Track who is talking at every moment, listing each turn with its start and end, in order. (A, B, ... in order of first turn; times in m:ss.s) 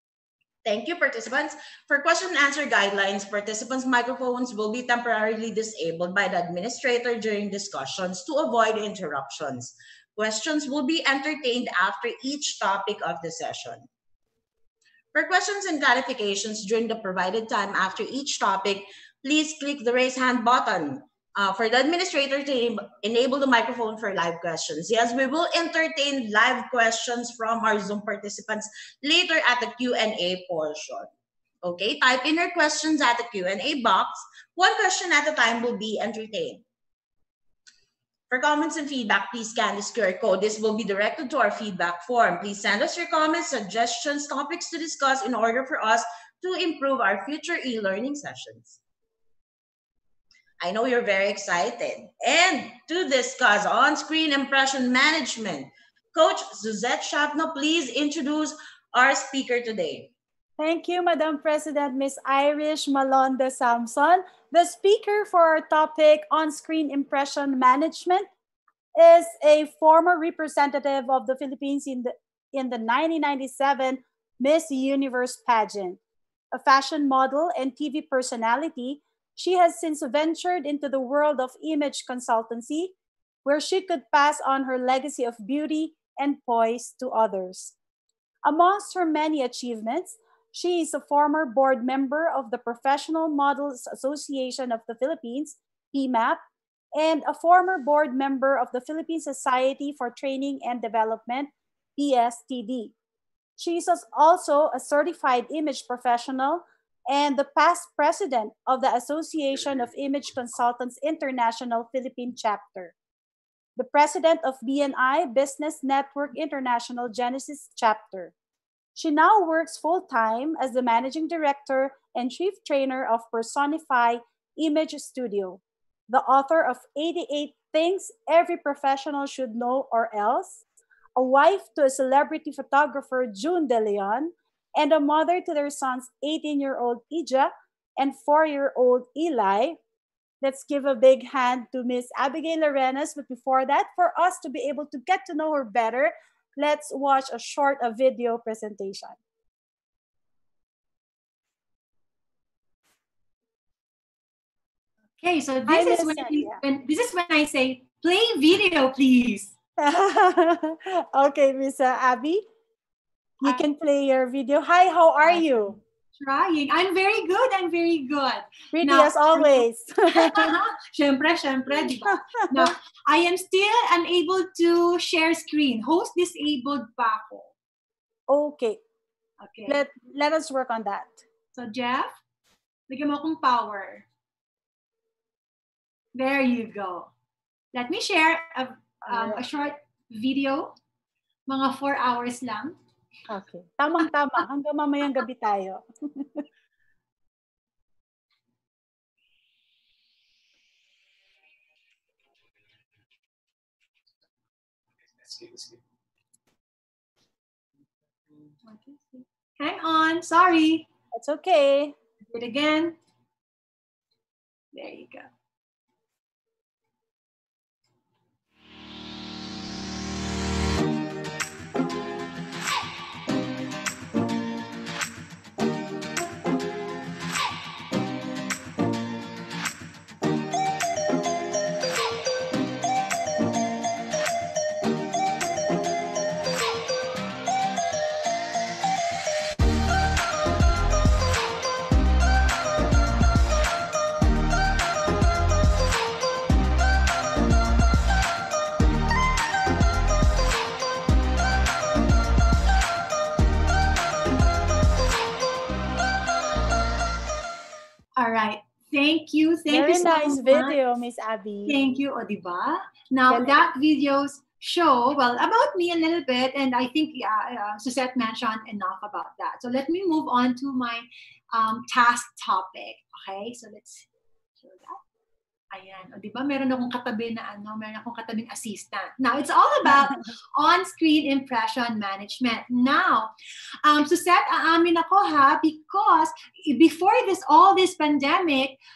0:00.6-0:13.8 A
0:15.1-0:31.1 A
0:31.6-0:36.6 A
0:38.3-0:48.8 A
0:50.6-1:00.1 A
1:00.6-1:08.3 B
1:09.0-1:16.0 B
1:16.5-1:22.9 B
1:23.4-1:27.8 B
1:28.4-1:36.4 B
1:36.9-1:42.9 B
1:43.6-1:52.9 B
1:53.8-1:58.3 B
1:59.0-2:10.6 B
2:11.2-2:19.8 B
2:20.4-2:29.2 B
2:35.2-2:39.5 C
2:35.7-2:36.6 B
2:39.8-2:42.4 B
2:43.4-2:45.8 B
2:45.3-2:45.6 C
2:46.2-2:57.5 C
2:48.7-2:50.5 B
2:51.7-2:52.7 B
2:58.3-2:58.8 B
2:59.4-2:59.8 C
2:59.7-3:01.2 B
3:01.5-3:02.1 C
3:02.9-3:04.0 C
3:06.1-3:07.1 C
3:07.7-3:10.7 C
3:09.0-3:09.4 B
3:11.5-3:12.7 C
3:13.3-3:16.4 B
3:28.6-3:30.9 C
3:31.1-3:31.9 B
3:32.3-3:33.0 C
3:34.7-3:35.3 C
4:18.2-4:20.7 C
4:19.7-4:21.8 B
4:21.7-4:34.1 C
4:23.3-4:23.5 B
4:34.6-4:35.0 C
4:35.7-4:43.3 C
4:43.8-4:48.8 C